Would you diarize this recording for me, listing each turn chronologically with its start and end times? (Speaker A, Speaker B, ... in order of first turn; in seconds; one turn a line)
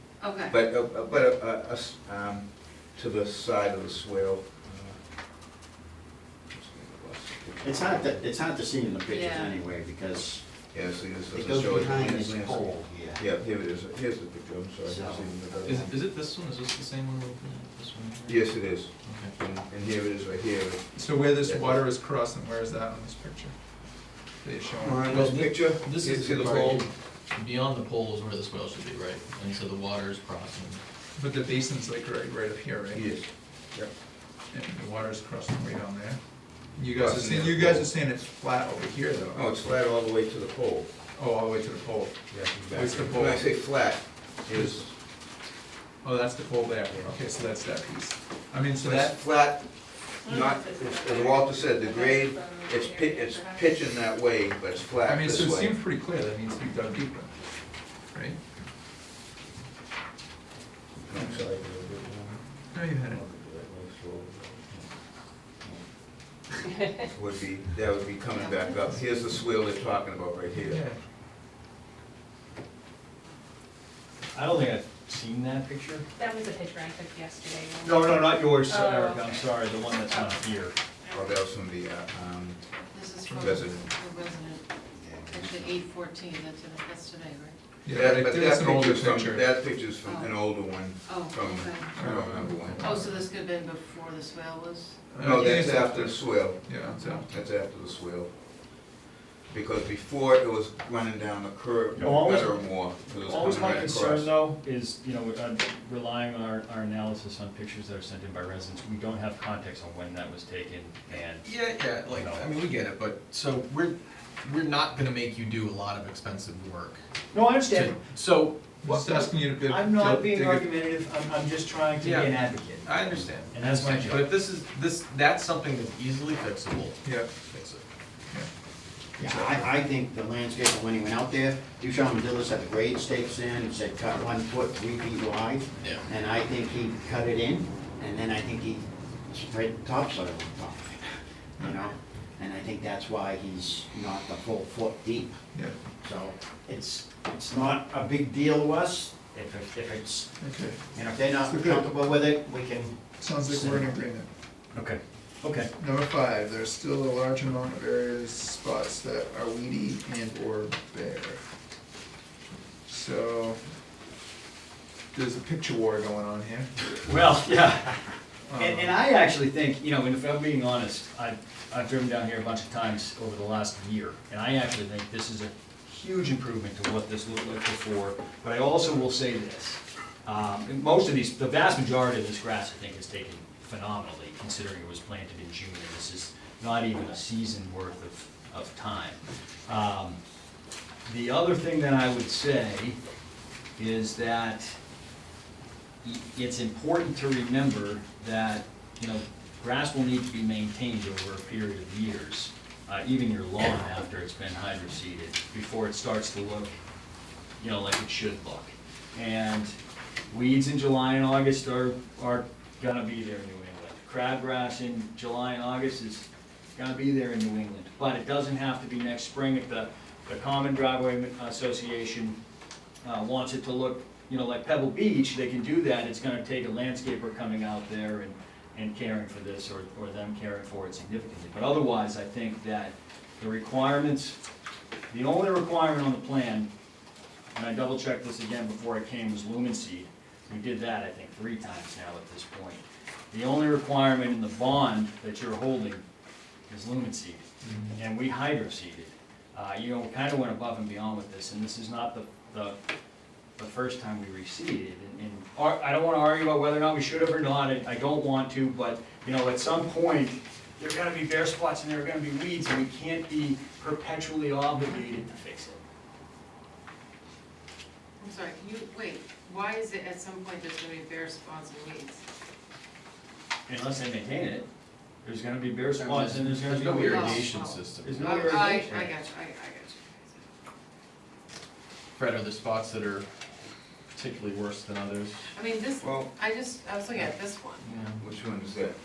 Speaker A: 0.2-0.6
Speaker B: 0.5-5.0
Speaker B: 6.5-8.2
Speaker C: 7.6-10.5
Speaker A: 9.1-9.6
Speaker B: 10.7-15.9
Speaker C: 11.3-13.4
Speaker C: 14.8-15.9
Speaker D: 15.6-19.3
Speaker B: 18.3-21.8
Speaker E: 20.9-23.5
Speaker E: 24.4-25.1
Speaker B: 24.8-26.9
Speaker D: 25.1-30.8
Speaker E: 31.1-33.0
Speaker B: 32.9-33.9
Speaker E: 34.5-36.2
Speaker E: 36.8-39.5
Speaker B: 36.9-37.9
Speaker B: 39.3-40.9
Speaker E: 41.1-43.5
Speaker B: 42.3-44.9
Speaker E: 44.5-44.9
Speaker E: 46.0-49.0
Speaker B: 46.9-47.1
Speaker B: 48.8-49.6
Speaker B: 50.2-55.7
Speaker F: 50.2-54.1
Speaker E: 55.0-57.4
Speaker E: 58.1-58.4
Speaker B: 61.1-64.9
Speaker E: 62.7-63.2
Speaker B: 65.5-65.8
Speaker B: 67.1-70.8
Speaker E: 70.6-71.0
Speaker G: 74.3-76.0
Speaker F: 76.2-80.4
Speaker G: 77.8-80.7
Speaker B: 81.1-82.7
Speaker A: 82.9-87.5
Speaker B: 83.4-83.8
Speaker B: 85.1-85.7
Speaker E: 87.8-89.5
Speaker B: 87.9-92.9
Speaker A: 90.0-92.0
Speaker E: 92.0-93.2
Speaker A: 92.8-95.0
Speaker E: 95.1-97.4
Speaker B: 95.2-98.3
Speaker B: 99.5-104.3
Speaker G: 102.0-111.5
Speaker D: 111.1-117.0
Speaker G: 112.1-112.5
Speaker G: 117.3-118.0
Speaker D: 117.5-118.8
Speaker E: 118.8-120.7
Speaker G: 118.8-123.0
Speaker D: 122.0-127.8
Speaker G: 123.5-124.3
Speaker E: 127.0-127.3
Speaker C: 129.2-145.4
Speaker E: 129.2-129.7
Speaker D: 135.8-136.1
Speaker C: 146.0-150.3
Speaker E: 150.4-150.8
Speaker C: 150.9-154.0
Speaker E: 151.4-151.9
Speaker E: 153.2-154.3
Speaker G: 154.7-155.7
Speaker E: 155.8-161.4
Speaker E: 162.8-163.6
Speaker E: 165.1-166.7
Speaker G: 167.0-190.2
Speaker E: 168.5-168.9
Speaker G: 191.0-193.0
Speaker G: 193.8-194.8
Speaker G: 196.0-206.7
Speaker G: 207.6-209.7
Speaker G: 210.3-222.4
Speaker G: 223.0-234.4
Speaker G: 235.1-236.7
Speaker G: 237.5-246.0
Speaker G: 246.7-247.4
Speaker G: 247.9-252.8
Speaker G: 253.6-265.8
Speaker A: 268.2-272.2
Speaker G: 273.7-274.7
Speaker G: 275.2-279.3
Speaker D: 276.0-278.8
Speaker A: 277.0-280.3
Speaker D: 282.1-283.2
Speaker D: 284.1-285.4
Speaker A: 285.5-287.9
Speaker B: 286.0-286.3
Speaker D: 287.8-288.2
Speaker B: 288.2-288.9